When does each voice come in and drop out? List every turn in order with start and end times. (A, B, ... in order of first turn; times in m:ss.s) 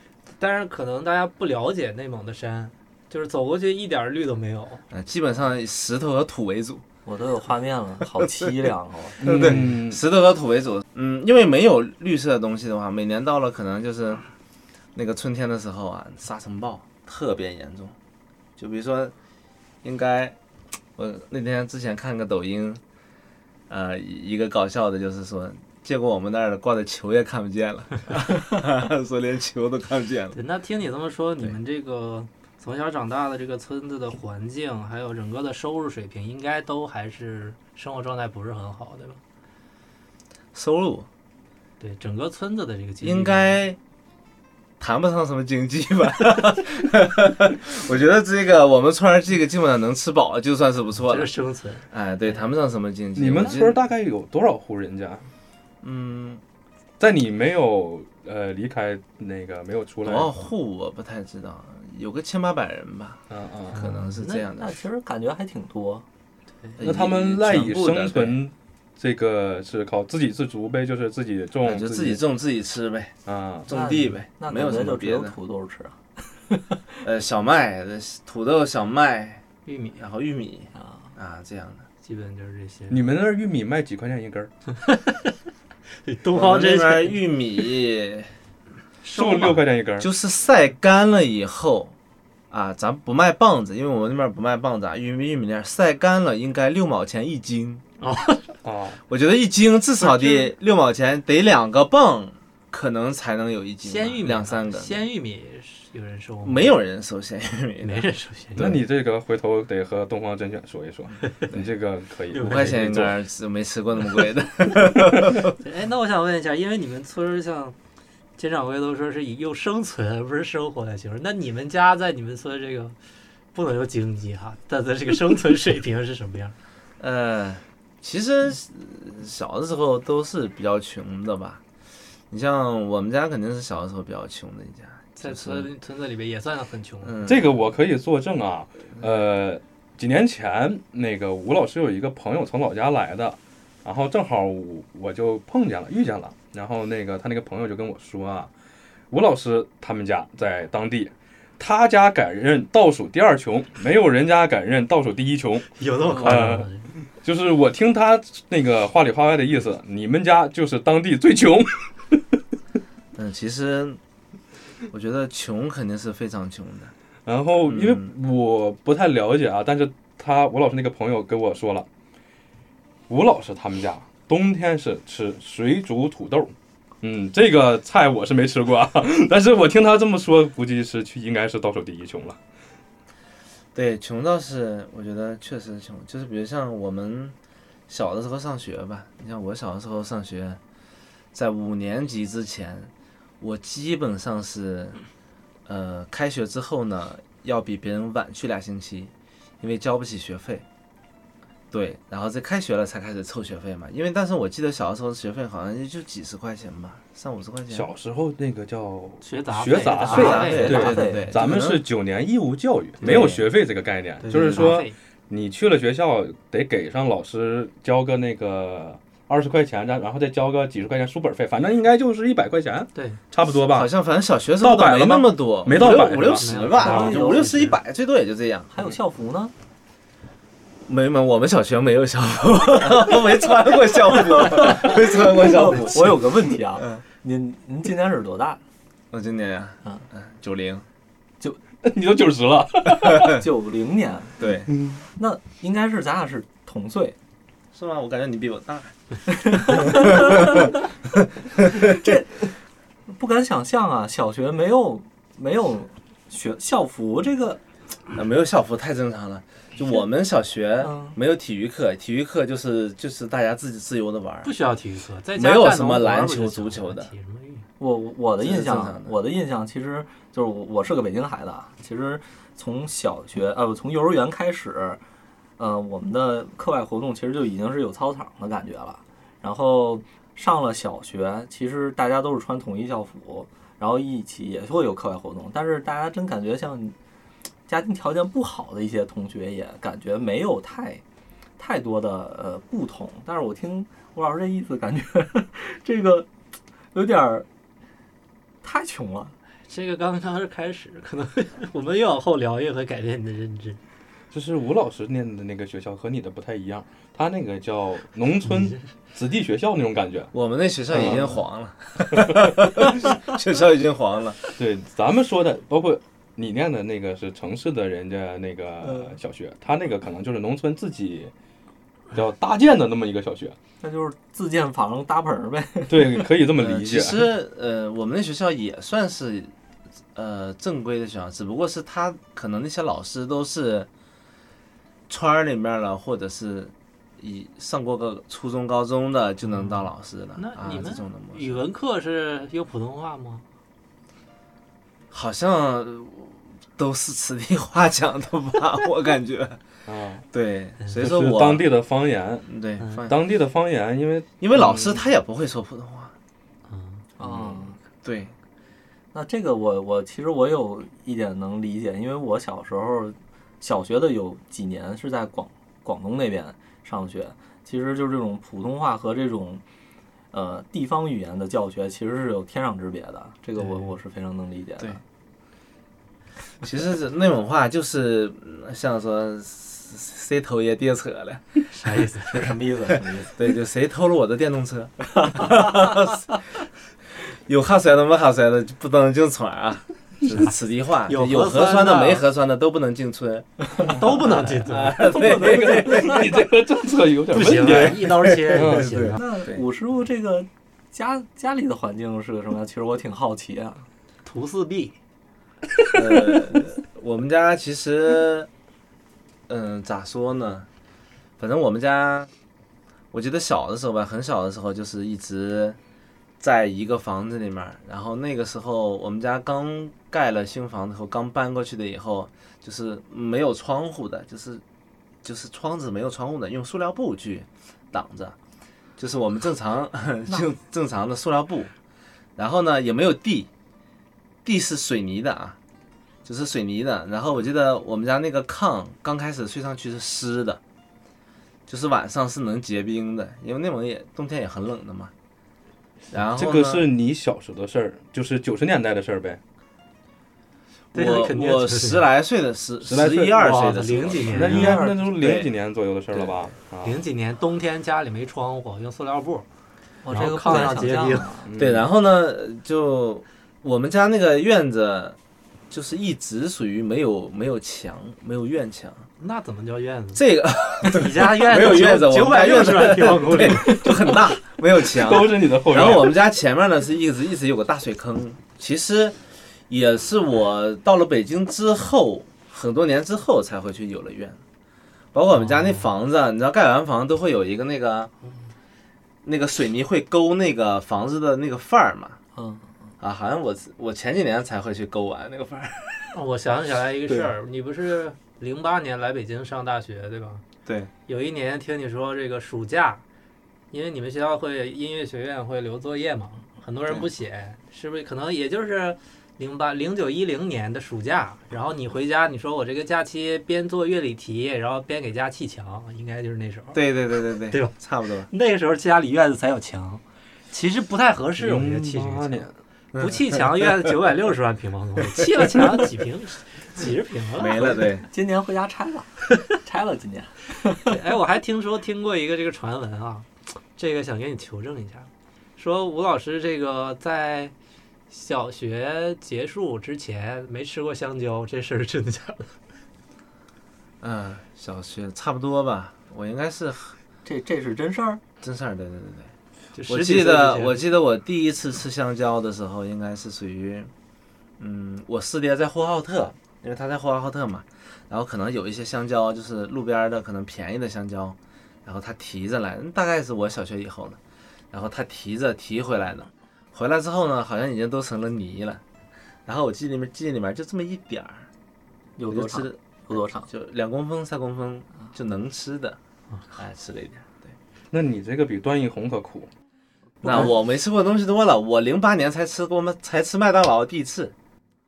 0:00.4-0:04.8 A
0:04.9-0:06.8 B
0:07.0-0:09.5 C
0:08.3-0:08.6 B
0:09.2-0:10.0 D
0:09.2-0:14.2 B
0:15.0-0:18.0 B
0:18.6-0:19.1 B
0:19.8-0:20.4 B
0:21.0-0:22.8 B
0:23.7-0:30.4 B
0:30.3-0:39.2 A
0:40.5-0:41.1 B
0:41.8-0:43.6 A
0:43.0-0:43.8 B
0:44.8-0:51.3 B
0:51.0-0:52.4 A
0:51.9-0:53.8 B
0:53.2-0:55.3 D
0:55.8-0:56.4 B
0:57.0-1:00.3 D
1:00.0-1:04.8 B
1:03.3-1:03.8 D
1:03.7-1:04.4 A
1:04.5-1:06.0 C
1:06.8-1:08.4 B
1:06.8-1:12.2 D
1:11.6-1:13.2 B
1:13.3-1:13.7 D
1:13.7-1:15.4 B
1:13.7-1:17.0 C
1:17.0-1:19.4 B
1:19.7-1:20.0 A
1:20.0-1:21.8 B
1:20.8-1:21.1 C
1:22.0-1:23.0 A
1:22.9-1:24.5 D
1:24.8-1:25.3 A
1:26.0-1:27.2 A
1:26.3-1:28.3 B
1:29.0-1:29.6 A
1:29.1-1:30.1 D
1:30.0-1:31.9 B
1:32.5-1:37.8 B
1:38.0-1:38.5 A
1:38.6-1:39.0 D
1:39.1-1:45.0 B
1:40.0-1:40.5 A
1:43.8-1:46.7 A
1:46.4-1:48.0 B
1:47.8-1:48.8 A
1:48.6-1:53.2 D
1:52.3-1:52.8 A
1:52.4-1:55.5 B
1:55.6-1:57.8 A
1:58.4-2:03.0 A
2:03.5-2:06.6 A
2:07.0-2:11.6 B
2:12.3-2:15.7 B
2:15.2-2:17.3 A
2:17.0-2:17.5 B
2:17.3-2:28.5 D
2:29.1-2:35.7 D
2:35.8-2:36.9 A
2:36.1-2:36.4 B
2:36.2-2:36.7 D
2:37.2-2:42.4 D
2:43.2-2:44.0 B
2:44.9-2:46.9 B
2:47.3-2:51.9 D
2:47.6-2:48.1 B
2:53.1-3:02.4 D
3:03.8-3:07.4 B
3:07.9-3:10.6 B
3:11.3-3:15.0 B
3:15.7-3:20.6 B
3:21.7-3:27.9 B
3:27.7-3:43.9 D
3:29.2-3:30.9 A
3:30.1-3:31.3 C
3:30.1-3:31.8 B
3:33.0-3:33.4 B
3:33.0-3:33.4 C
3:34.3-3:34.7 B
3:34.5-3:35.0 A
3:43.0-3:43.2 A
3:43.7-3:48.7 B
3:44.6-3:47.1 D
3:45.8-3:47.8 A
3:46.8-3:47.6 C
3:48.7-3:49.5 C
3:50.9-3:57.0 B
3:54.2-3:58.6 C
3:59.1-4:00.8 B
4:01.8-4:03.4 D
4:03.2-4:04.4 C
4:04.4-4:04.7 B
4:04.8-4:05.0 D
4:05.2-4:07.2 C
4:07.7-4:09.0 B
4:09.3-4:10.8 C
4:09.5-4:10.7 B
4:11.4-4:12.0 B
4:11.6-4:17.6 C
4:18.1-4:24.5 B
4:20.8-4:21.2 C
4:24.4-4:27.7 A
4:25.4-4:27.1 B
4:27.8-4:35.0 C
4:28.4-4:29.2 B
4:35.6-4:47.0 C
4:47.7-4:51.0 C
4:51.6-4:56.3 C
4:56.9-4:57.5 C
4:58.6-4:59.4 C
4:59.7-5:03.8 A
5:04.3-5:10.3 D
5:10.3-5:14.4 B
5:10.9-5:11.4 D
5:14.6-5:21.3 D
5:18.8-5:19.2 C
5:22.1-5:23.6 D
5:23.8-5:26.3 C
5:25.9-5:27.3 D
5:26.6-5:29.5 B
5:30.2-5:33.9 B
5:35.1-5:41.6 B
5:40.4-5:43.4 A
5:45.1-5:49.6 B
5:49.9-5:50.2 D
5:50.3-5:51.7 B
5:51.0-5:52.5 D
5:52.5-5:53.2 B
5:53.1-5:55.0 D
5:54.4-5:56.1 B
5:56.7-5:57.0 A
5:57.2-5:57.8 C
5:58.0-5:58.4 B
5:59.1-6:09.6 C
6:10.3-6:15.0 C
6:16.6-6:21.7 B
6:21.7-6:22.4 A
6:22.2-6:23.4 C
6:23.3-6:26.4 B
6:27.2-6:36.5 B
6:30.2-6:30.5 A
6:31.1-6:32.3 A
6:33.8-6:36.2 A
6:35.0-6:39.1 D
6:37.3-6:39.2 A
6:37.6-6:39.7 B
6:38.9-6:43.9 C
6:44.2-6:45.0 A
6:45.9-6:48.5 B
6:49.5-6:50.7 B
6:51.4-6:52.3 B
6:53.1-6:55.8 B
6:56.4-7:04.6 B
7:05.2-7:08.4 B
7:09.0-7:11.7 B
7:12.4-7:13.5 B
7:14.4-7:15.6 B
7:16.2-7:20.6 B
7:21.7-7:25.1 B
7:26.1-7:26.9 B
7:26.3-7:29.4 D
7:30.9-7:32.1 A
7:30.9-7:35.5 B
7:32.8-7:33.4 D
7:33.3-7:34.8 A
7:34.3-7:37.0 D
7:34.4-7:35.0 C
7:36.1-7:36.5 B
7:36.8-7:39.5 A
7:40.0-7:41.5 C
7:40.1-7:41.4 A
7:41.5-7:41.8 D
7:41.6-7:45.2 B
7:45.7-7:49.1 B
7:49.2-7:50.2 A
7:50.1-7:59.2 B
7:50.8-7:54.1 A
7:54.8-7:56.2 D
7:59.7-8:04.4 B
8:05.1-8:08.1 B
8:05.4-8:05.8 A
8:09.2-8:12.2 B
8:12.4-8:12.9 C
8:13.0-8:16.2 B
8:16.1-8:20.4 A
8:20.7-8:20.9 B
8:21.1-8:23.0 A
8:23.7-8:37.8 A
8:36.7-8:38.3 B
8:38.3-8:42.5 A
8:41.4-8:42.5 D
8:42.9-8:43.7 B
8:43.0-8:47.8 A
8:47.4-8:48.1 B
8:47.5-8:51.0 C
8:50.8-8:57.5 A
8:58.1-9:02.6 A
9:04.0-9:07.0 B
9:07.2-9:08.2 C
9:08.4-9:09.3 B
9:09.7-9:10.8 A
9:09.9-9:13.9 B
9:14.6-9:24.2 B
9:24.7-9:28.8 B
9:29.5-9:31.5 B
9:32.2-9:33.5 C
9:32.3-9:36.0 B
9:36.6-9:37.6 B
9:37.9-9:39.5 D
9:40.2-9:44.3 B